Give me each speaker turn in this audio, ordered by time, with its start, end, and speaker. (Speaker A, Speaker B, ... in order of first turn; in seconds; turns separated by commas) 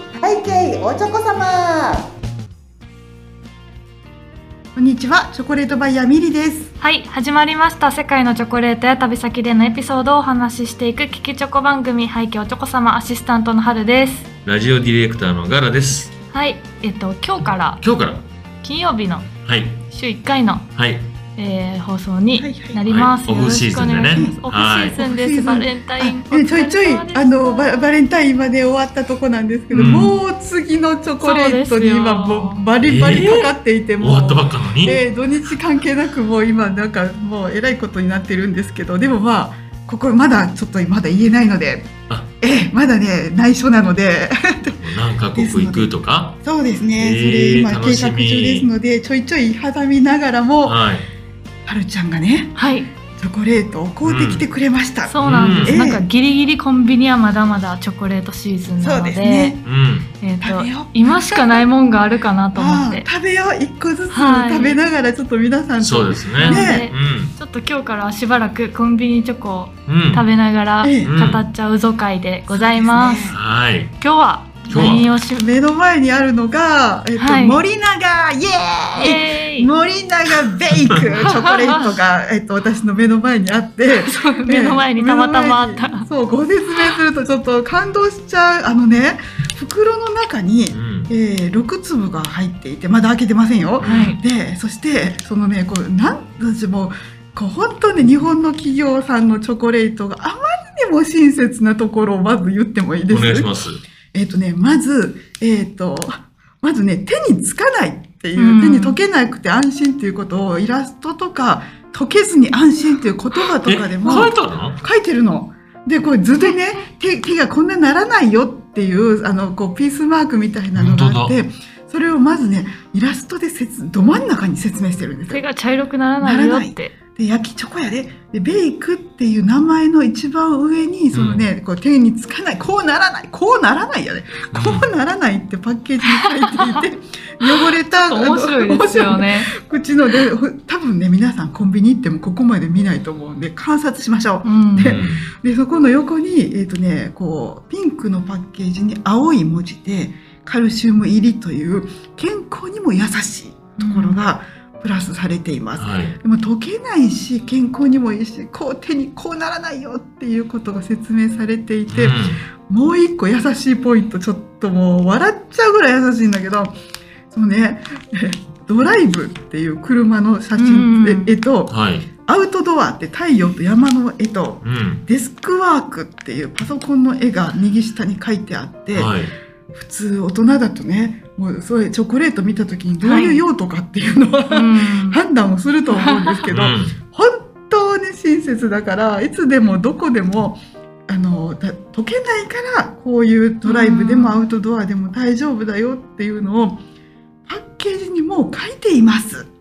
Speaker A: 0.2-2.0, Speaker A: 4.7-6.7, Speaker B: 6.8-14.3, Speaker C: 14.4-16.1, Speaker B: 16.3-17.8, Speaker C: 17.4-18.3, Speaker B: 18.6-19.3, Speaker C: 19.4-19.8, Speaker B: 19.9-20.7, Speaker C: 20.8-21.1, Speaker B: 21.3-27.9, Speaker A: 22.4-22.8, Speaker C: 22.9-25.0, Speaker A: 24.1-44.8, Speaker B: 29.7-30.1, Speaker C: 29.7-30.1, Speaker B: 31.2-32.6, Speaker C: 32.8-35.0, Speaker C: 44.6-46.4, Speaker A: 45.3-45.9, Speaker A: 46.4-50.8, Speaker C: 47.0-48.7, Speaker C: 50.6-51.1, Speaker A: 51.6-56.0, Speaker B: 52.5-52.9, Speaker C: 54.0-54.5, Speaker B: 55.1-59.6, Speaker C: 55.2-55.9, Speaker A: 58.8-59.6, Speaker C: 59.6-60.1, Speaker B: 60.2-63.0, Speaker A: 60.4-61.7, Speaker A: 62.5-66.9, Speaker B: 64.1-64.8, Speaker C: 65.8-67.3, Speaker B: 66.4-73.3, Speaker C: 69.9-70.2, Speaker A: 70.8-71.1, Speaker C: 71.0-71.4, Speaker A: 72.5-73.4, Speaker C: 73.3-74.0, Speaker B: 74.0-75.5, Speaker C: 74.7-75.1, Speaker A: 74.7-103.5, Speaker B: 77.2-77.6, Speaker B: 78.9-79.7, Speaker B: 81.4-81.8, Speaker B: 83.9-86.1, Speaker C: 90.7-91.1, Speaker C: 93.8-94.2, Speaker B: 93.8-94.2, Speaker C: 103.1-103.8, Speaker A: 104.1-125.4, Speaker B: 108.3-109.0, Speaker C: 113.6-114.8, Speaker C: 120.7-121.3, Speaker B: 125.3-126.9, Speaker A: 126.2-166.7, Speaker C: 131.1-131.4, Speaker C: 134.5-134.9, Speaker B: 136.1-136.8, Speaker B: 137.4-139.5, Speaker B: 144.4-145.0, Speaker C: 144.8-145.3, Speaker B: 153.8-154.2, Speaker C: 155.8-156.2, Speaker C: 161.9-162.4, Speaker A: 167.3-171.7, Speaker B: 170.6-171.3, Speaker C: 171.7-172.1, Speaker A: 172.2-179.1, Speaker C: 174.6-175.0, Speaker C: 178.9-179.3, Speaker A: 179.7-196.8, Speaker B: 183.0-183.4, Speaker B: 184.5-185.2, Speaker B: 185.9-186.4, Speaker C: 186.5-187.0, Speaker B: 193.6-194.3, Speaker A: 197.5-199.5